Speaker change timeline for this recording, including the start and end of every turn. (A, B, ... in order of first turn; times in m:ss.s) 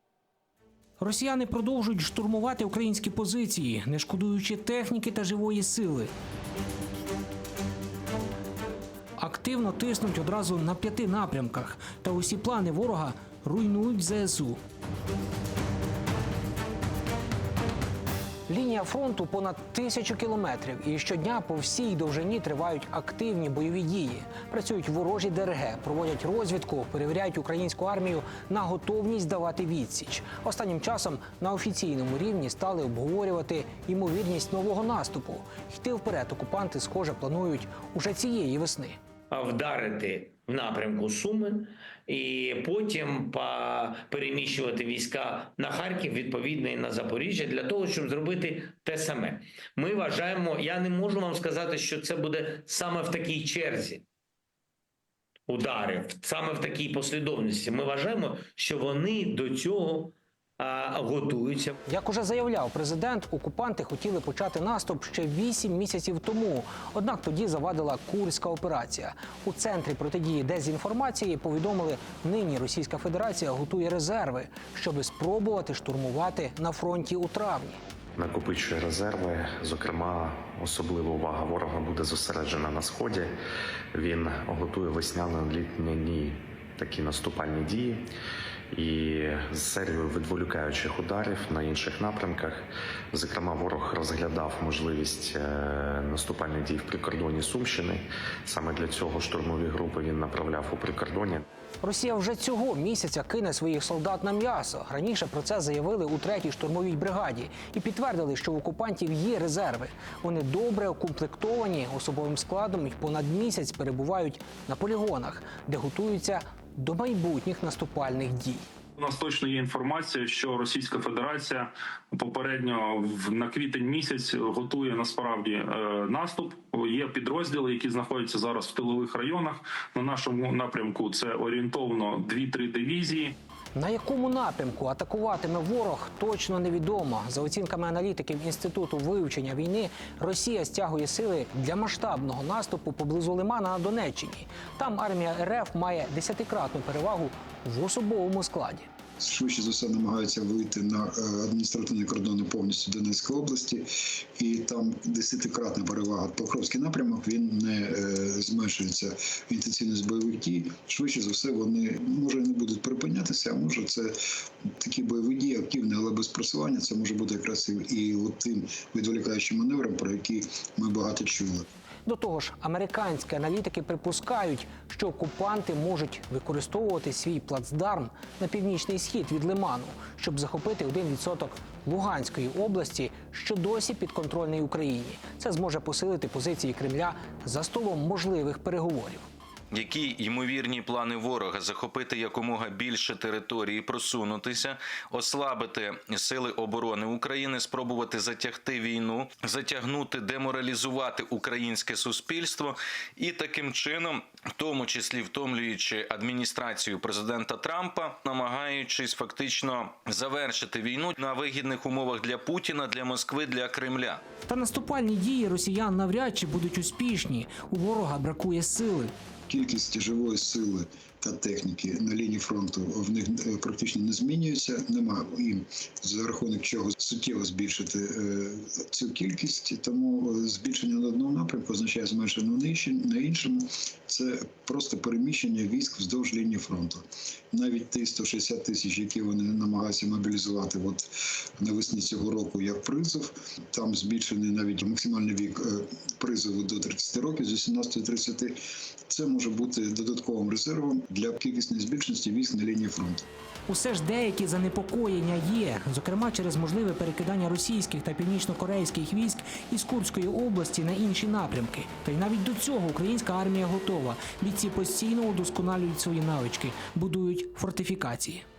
0:01.0-0:06.1 A
0:09.2-0:14.6 A
0:18.5-0:39.0 A
0:39.3-0:54.0 B
0:55.5-1:01.8 B
1:01.9-1:17.8 A
1:18.2-1:23.3 C
1:23.9-1:28.0 C
1:28.7-1:41.4 C
1:41.8-1:58.7 A
1:59.0-2:13.3 D
2:13.8-2:28.9 A
2:29.2-2:33.9 E
2:34.4-2:44.2 E
2:44.8-2:51.7 E
2:52.1-3:09.3 A
3:09.7-3:34.2 F
3:34.5-3:39.1 A
3:39.5-4:08.6 E
4:09.1-4:13.3 E
4:13.7-4:28.4 A